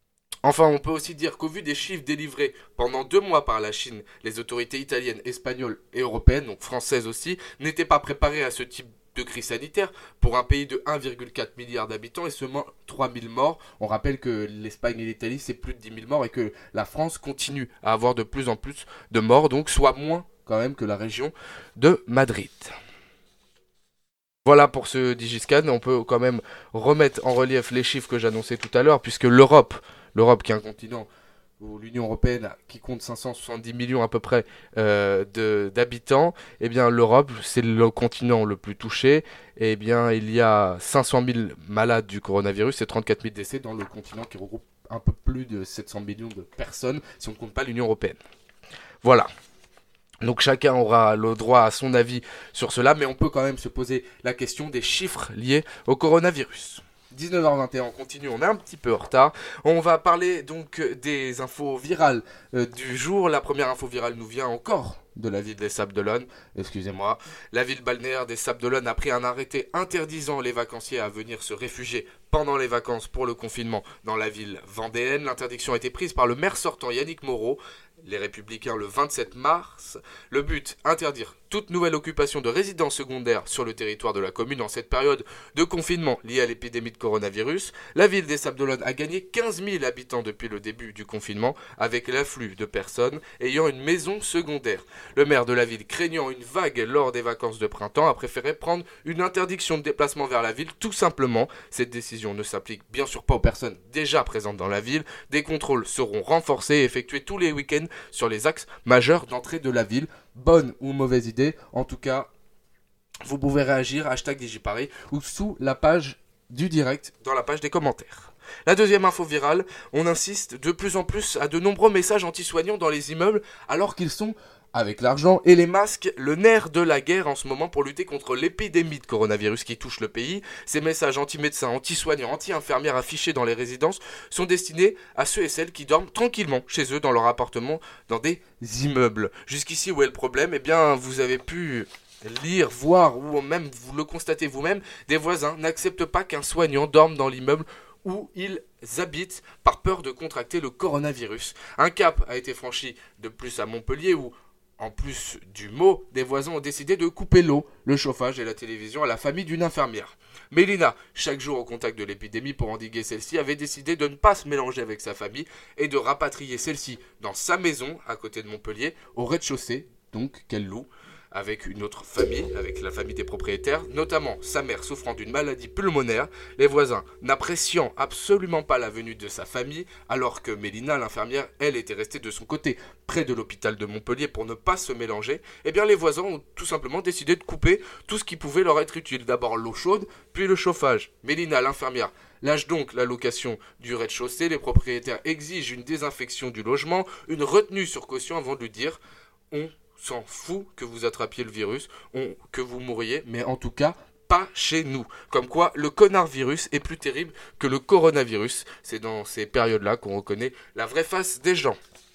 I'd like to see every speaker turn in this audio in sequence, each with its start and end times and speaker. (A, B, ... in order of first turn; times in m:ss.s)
0:00.4-0:22.7 A
0:24.4-0:31.1 A
0:31.6-0:48.2 A
0:49.0-0:49.3 A
0:50.2-1:52.3 A
1:53.2-3:19.0 A
3:19.5-3:31.8 A